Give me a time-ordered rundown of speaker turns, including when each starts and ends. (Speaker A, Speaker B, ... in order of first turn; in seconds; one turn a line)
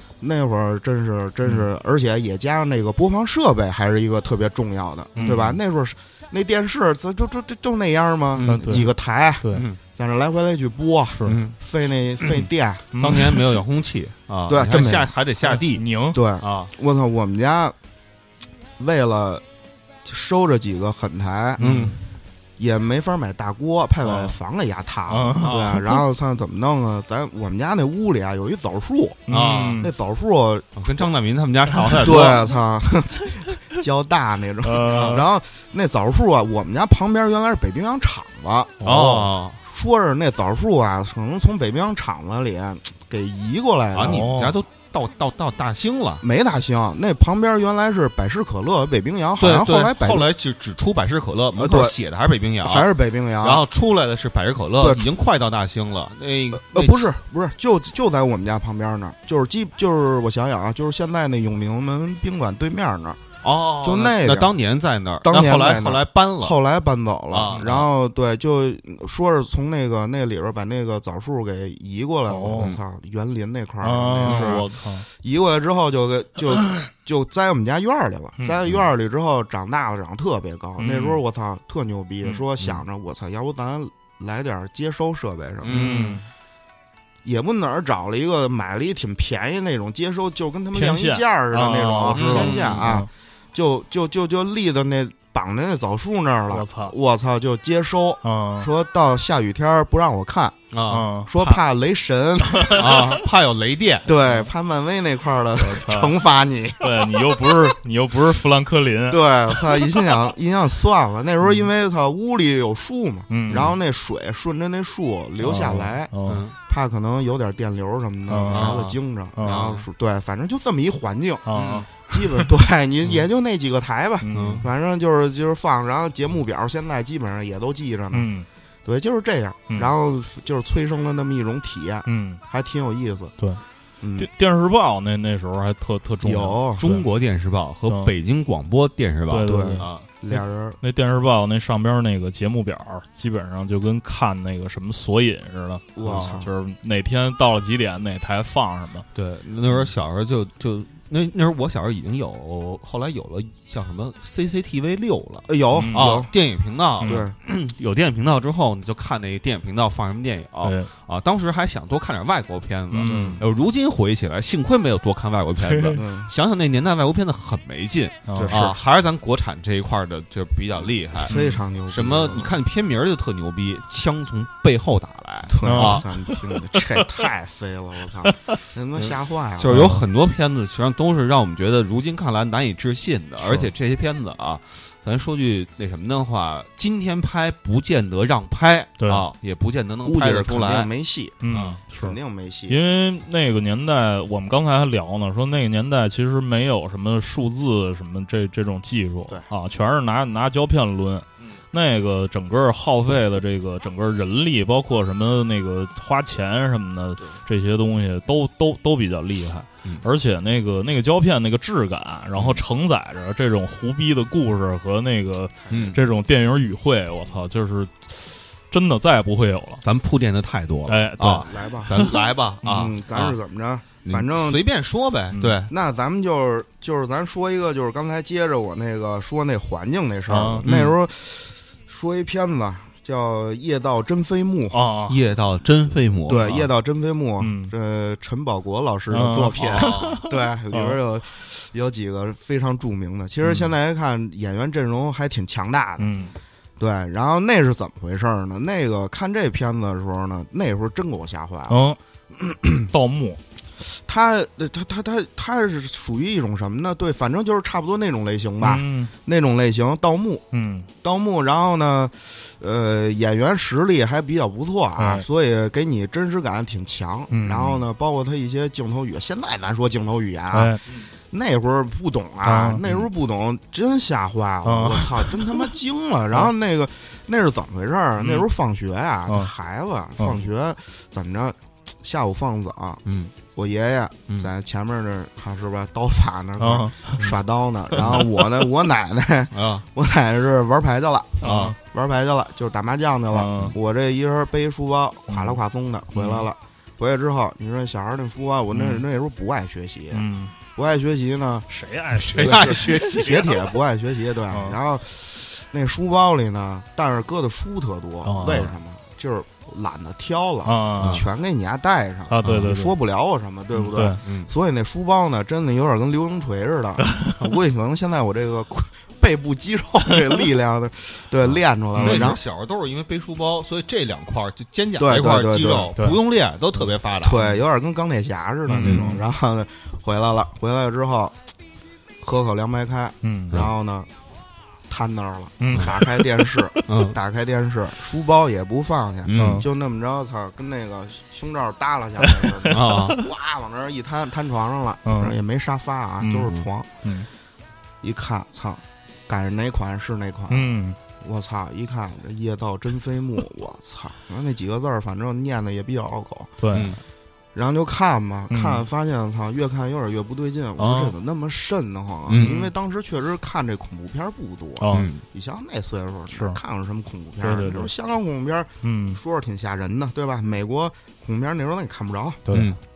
Speaker A: 0.2-12.8
Speaker B: 5.1-5.5
Speaker C: 8.4-8.9
Speaker B: 8.4-8.9
Speaker C: 9.5-9.8
Speaker C: 11.2-11.5
Speaker B: 12.9-13.5
Speaker C: 12.9-15.8
Speaker A: 14.5-15.1
Speaker B: 15.4-16.2
Speaker A: 16.1-17.7
Speaker C: 16.4-16.7
Speaker A: 18.8-19.4
Speaker A: 20.0-21.8
Speaker B: 21.6-22.0
Speaker C: 21.6-22.0
Speaker A: 22.6-29.2
Speaker B: 25.1-25.8
Speaker C: 25.4-25.8
Speaker B: 29.3-29.9
Speaker C: 29.3-29.8
Speaker A: 29.8-31.1
Speaker C: 30.8-32.5
Speaker A: 32.0-38.7
Speaker B: 34.6-35.2
Speaker C: 34.9-35.2
Speaker B: 38.8-39.3
Speaker C: 38.8-39.6
Speaker A: 39.6-44.3
Speaker C: 43.9-46.2
Speaker B: 44.0-44.6
Speaker A: 46.2-50.3
Speaker C: 49.4-52.9
Speaker A: 51.5-52.0
Speaker A: 52.6-53.6
Speaker C: 53.4-57.1
Speaker A: 54.8-55.0
Speaker A: 56.5-63.2
Speaker C: 63.4-66.6
Speaker A: 63.8-64.5
Speaker A: 65.2-86.0
Speaker C: 67.3-67.9
Speaker B: 72.3-72.8
Speaker B: 73.8-75.0
Speaker C: 74.2-74.6
Speaker B: 80.8-81.2
Speaker C: 85.6-86.2
Speaker B: 85.7-86.2
Speaker A: 87.2-100.6
Speaker B: 90.7-93.1
Speaker C: 92.1-93.0
Speaker B: 96.5-96.9
Speaker B: 98.2-98.7
Speaker C: 100.7-101.1
Speaker B: 100.9-101.6
Speaker A: 101.2-103.1
Speaker B: 102.6-103.1
Speaker C: 102.7-104.1
Speaker A: 104.0-107.5
Speaker B: 104.2-104.5
Speaker B: 105.6-106.1
Speaker B: 106.8-109.9
Speaker A: 109.1-116.1
Speaker B: 113.3-113.7
Speaker C: 113.5-113.7
Speaker B: 115.4-116.4
Speaker C: 116.2-116.5
Speaker A: 116.7-121.5
Speaker B: 118.3-118.8
Speaker C: 118.5-119.8
Speaker B: 119.4-119.7
Speaker B: 121.5-122.5
Speaker C: 121.5-121.9
Speaker A: 122.0-128.3
Speaker B: 124.2-124.7
Speaker C: 124.3-124.7
Speaker B: 128.1-128.4
Speaker A: 128.8-133.3
Speaker B: 132.1-132.4
Speaker A: 134.0-134.3
Speaker B: 134.2-137.0
Speaker A: 136.2-136.9
Speaker C: 136.8-140.0
Speaker B: 137.9-138.1
Speaker B: 139.3-149.1
Speaker A: 139.4-140.8
Speaker A: 145.9-146.5
Speaker C: 149.1-171.3
Speaker A: 155.5-156.3
Speaker B: 155.7-156.2
Speaker A: 157.0-157.3
Speaker B: 160.6-160.9
Speaker B: 162.9-163.4
Speaker A: 163.1-163.4
Speaker B: 165.6-166.0
Speaker A: 165.9-166.3
Speaker B: 168.3-168.6
Speaker A: 168.3-168.7
Speaker A: 171.3-172.5
Speaker B: 171.3-171.6
Speaker C: 171.9-176.1
Speaker A: 175.5-179.9
Speaker B: 175.6-177.2
Speaker C: 179.0-190.9
Speaker B: 179.7-180.0
Speaker B: 189.0-189.2
Speaker A: 190.0-192.8
Speaker B: 191.4-192.2
Speaker C: 191.5-191.8
Speaker B: 192.7-219.8
Speaker C: 212.3-212.6
Speaker A: 215.6-215.9
Speaker C: 215.7-216.0
Speaker C: 219.8-223.4
Speaker B: 220.9-222.1
Speaker A: 221.3-224.6
Speaker C: 224.0-225.7
Speaker B: 225.3-225.6
Speaker A: 225.7-234.8
Speaker B: 230.3-230.8
Speaker C: 230.6-230.9
Speaker B: 234.7-235.2
Speaker C: 235.1-236.7
Speaker A: 236.3-246.1
Speaker B: 237.4-237.7
Speaker B: 239.1-241.0
Speaker C: 239.6-240.2
Speaker B: 246.0-246.3
Speaker A: 246.8-251.8
Speaker B: 251.7-252.0
Speaker A: 252.3-252.9
Speaker B: 252.9-253.4
Speaker A: 253.8-260.4
Speaker B: 258.6-259.1
Speaker B: 260.5-260.9
Speaker A: 261.0-270.7
Speaker B: 265.0-265.2
Speaker B: 267.3-267.8
Speaker B: 270.5-270.8
Speaker A: 271.3-283.0
Speaker B: 272.4-272.8
Speaker B: 274.6-275.7
Speaker C: 283.0-283.3
Speaker A: 283.5-301.7
Speaker B: 286.6-287.3
Speaker C: 289.5-289.8
Speaker B: 291.4-291.8
Speaker C: 291.4-291.8
Speaker B: 293.3-293.7
Speaker B: 295.3-295.6
Speaker B: 296.1-296.4
Speaker B: 298.7-299.0
Speaker B: 300.1-300.5
Speaker B: 301.7-303.3
Speaker C: 302.1-303.6
Speaker A: 302.4-322.4
Speaker B: 304.5-304.8
Speaker B: 308.2-308.7
Speaker B: 310.6-311.2
Speaker C: 311.0-311.2
Speaker B: 312.3-313.0
Speaker C: 312.4-312.7
Speaker B: 313.8-314.2
Speaker C: 314.2-314.5
Speaker C: 321.4-327.6
Speaker B: 322.0-322.3
Speaker A: 325.0-325.9
Speaker A: 327.2-331.3
Speaker B: 328.7-329.2
Speaker C: 328.8-329.2
Speaker A: 332.2-334.1
Speaker B: 333.2-333.6
Speaker A: 334.9-346.9
Speaker B: 335.6-336.5
Speaker C: 336.9-337.2
Speaker C: 339.2-339.6
Speaker B: 339.3-339.6
Speaker B: 342.2-343.2
Speaker C: 342.7-343.2
Speaker B: 345.0-345.4
Speaker B: 346.2-347.3
Speaker A: 348.0-350.7
Speaker B: 350.5-351.0
Speaker A: 351.2-356.5
Speaker B: 356.6-357.0
Speaker C: 356.7-357.0
Speaker A: 357.5-372.4
Speaker B: 358.5-358.8
Speaker C: 362.3-362.7
Speaker B: 364.8-365.1
Speaker C: 364.9-365.2
Speaker B: 366.3-366.6
Speaker B: 367.4-367.9
Speaker B: 368.8-369.2
Speaker B: 372.4-372.7
Speaker C: 372.5-372.8